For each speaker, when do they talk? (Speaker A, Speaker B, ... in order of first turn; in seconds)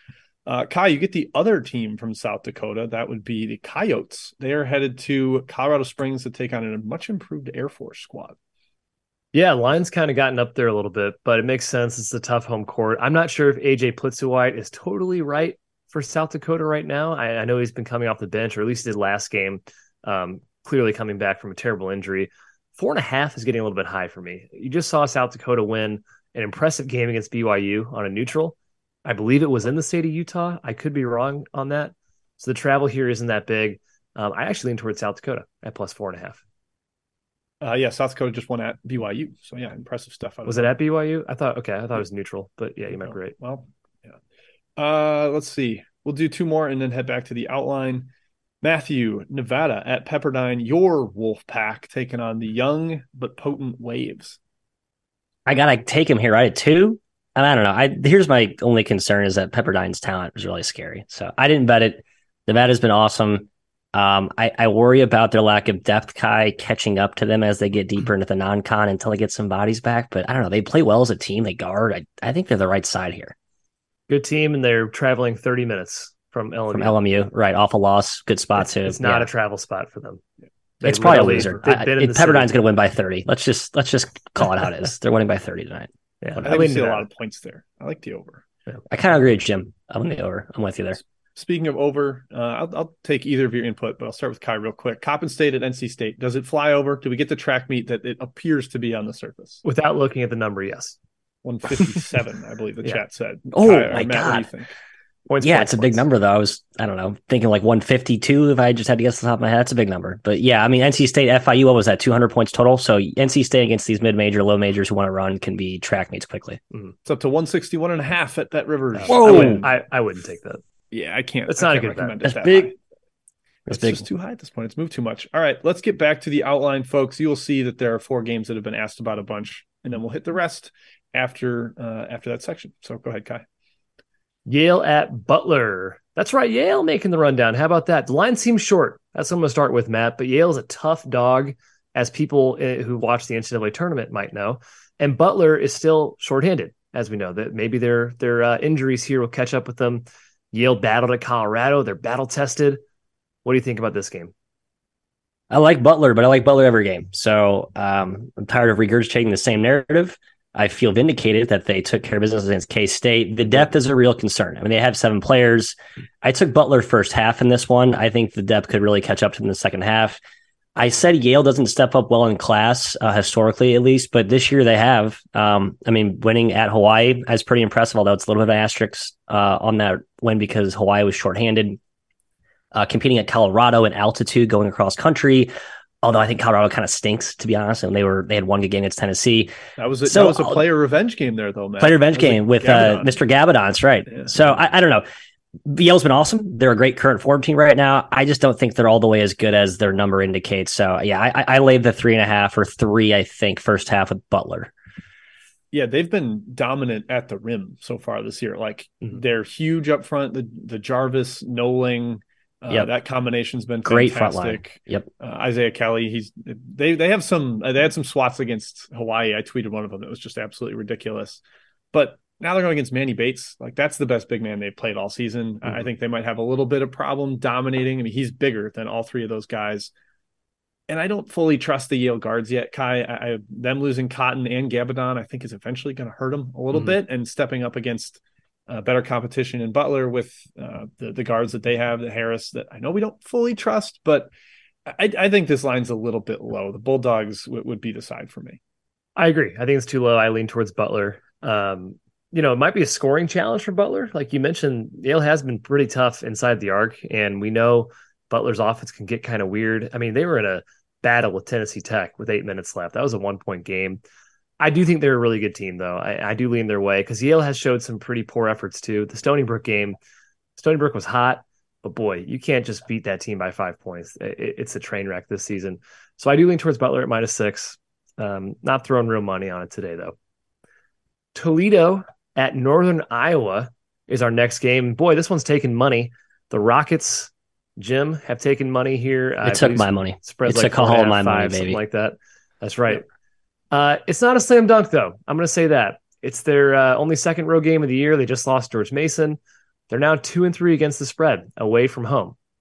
Speaker A: 0.5-8.4, 37.6-40.7, 43.0-44.1, 44.8-48.1, 48.6-54.4, 86.4-88.4, 91.3-99.6, 101.4-104.7, 117.0-119.7, 120.9-122.8, 123.7-133.4, 189.8-193.2, 205.7-221.4, 221.9-229.9, 230.9-244.3, 244.9-248.6
Speaker B: 9.3-36.4, 40.5-43.4, 74.1-77.0, 78.6-80.2, 80.8-82.5, 86.2-87.0, 99.6-101.0, 105.3-106.0, 119.0-120.6, 121.5-122.3, 134.5-152.8, 153.4-154.3, 249.2-264.0, 264.6-270.0, 270.6-280.1, 281.4-293.0, 293.7-299.4, 299.9-302.4
Speaker C: 55.5-73.3, 76.7-79.3, 80.8-85.9, 88.9-91.0, 103.5-104.5, 105.4-116.6, 119.1-119.7, 122.3-122.7, 123.7-124.1, 155.5-170.2, 170.8-181.8, 182.7-185.5, 186.0-189.5, 190.1-190.6, 191.8-195.1, 195.7-204.7, 213.8-215.1, 289.4-291.8